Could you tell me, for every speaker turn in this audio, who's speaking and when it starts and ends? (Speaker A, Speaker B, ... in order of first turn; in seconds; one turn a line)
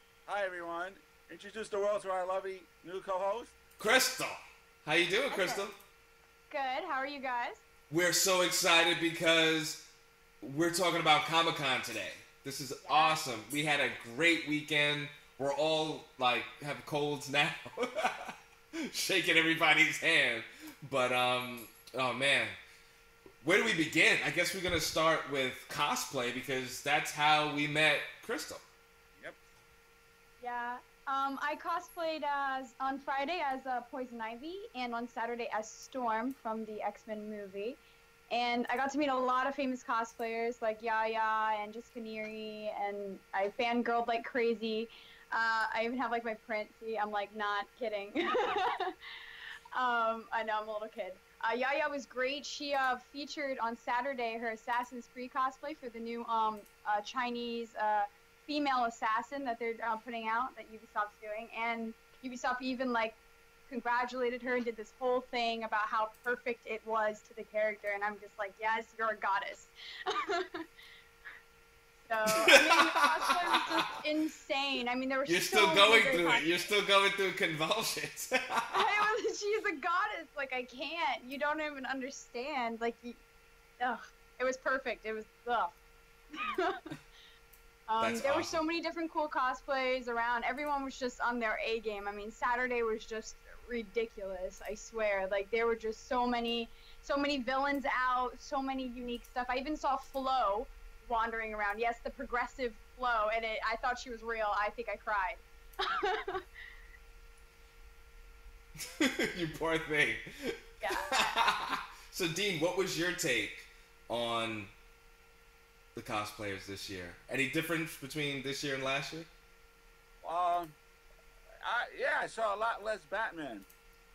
Speaker A: 0.2-3.5
Speaker B: 3.8-5.7
Speaker C: 5.3-5.7
Speaker C: 6.5-7.6
Speaker B: 7.9-9.9
Speaker B: 10.4-22.6
Speaker C: 12.8-13.2
Speaker B: 23.4-28.6
Speaker C: 30.4-49.0
Speaker C: 49.7-63.2
Speaker C: 63.7-70.6
Speaker C: 72.1-76.7
Speaker B: 72.4-73.8
Speaker B: 75.3-78.9
Speaker C: 78.7-83.2
Speaker C: 83.8-85.8
Speaker C: 86.3-86.8
Speaker C: 87.9-106.4
Speaker B: 88.0-88.6
Speaker B: 109.0-114.7
Speaker C: 110.8-111.4
Speaker B: 116.0-119.3
Speaker A: 120.2-120.7
Speaker A: 121.6-123.7